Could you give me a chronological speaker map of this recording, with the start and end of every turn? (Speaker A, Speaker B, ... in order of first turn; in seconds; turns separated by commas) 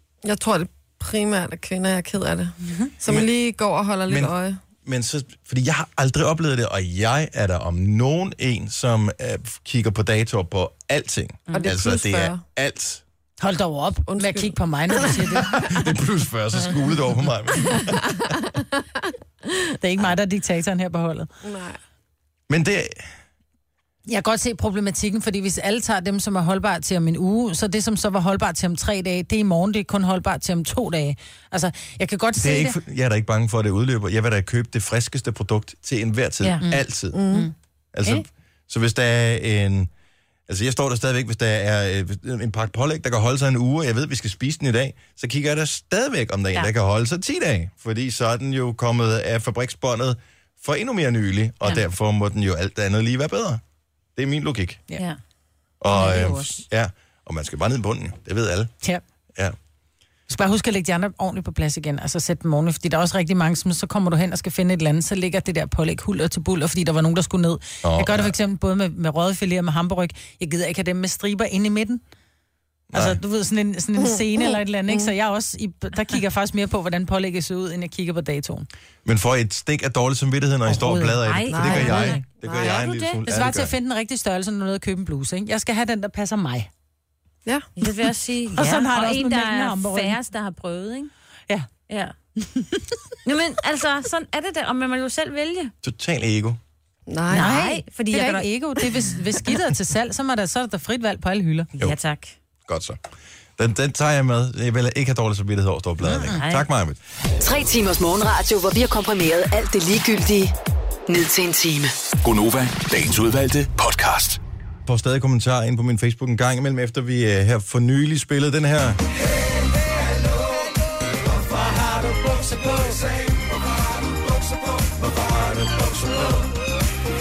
Speaker A: 0.2-4.6, Speaker B: 4.1-13.0, Speaker A: 11.5-12.4, Speaker C: 13.4-15.6, Speaker A: 14.1-15.7, Speaker B: 15.4-18.3, Speaker A: 17.7-18.6, Speaker C: 19.8-21.3, Speaker A: 21.4-21.8, Speaker B: 22.5-23.1, Speaker C: 24.1-32.8, Speaker B: 32.4-37.2, Speaker A: 37.1-37.5, Speaker B: 37.9-39.9, Speaker B: 40.5-53.6, Speaker B: 54.1-54.8, Speaker B: 55.8-58.7, Speaker D: 55.9-56.6, Speaker C: 60.3-72.0, Speaker B: 67.8-68.3, Speaker B: 72.9-73.2, Speaker C: 72.9-78.7, Speaker A: 74.0-75.1, Speaker B: 79.0-83.7, Speaker C: 80.7-81.2, Speaker D: 81.2-83.2, Speaker A: 81.5-82.8, Speaker C: 83.2-86.7, Speaker D: 87.8-91.1, Speaker C: 88.5-90.2, Speaker D: 91.9-92.1, Speaker C: 92.4-92.8, Speaker D: 93.2-95.7, Speaker B: 95.8-96.6, Speaker A: 97.1-97.6, Speaker D: 97.3-99.0, Speaker C: 97.3-101.7, Speaker D: 101.8-102.3, Speaker B: 102.7-103.0, Speaker B: 103.6-107.0, Speaker D: 106.0-106.7, Speaker E: 107.4-110.5, Speaker E: 111.1-111.9, Speaker F: 112.2-114.4, Speaker B: 114.8-119.0, Speaker B: 125.6-126.2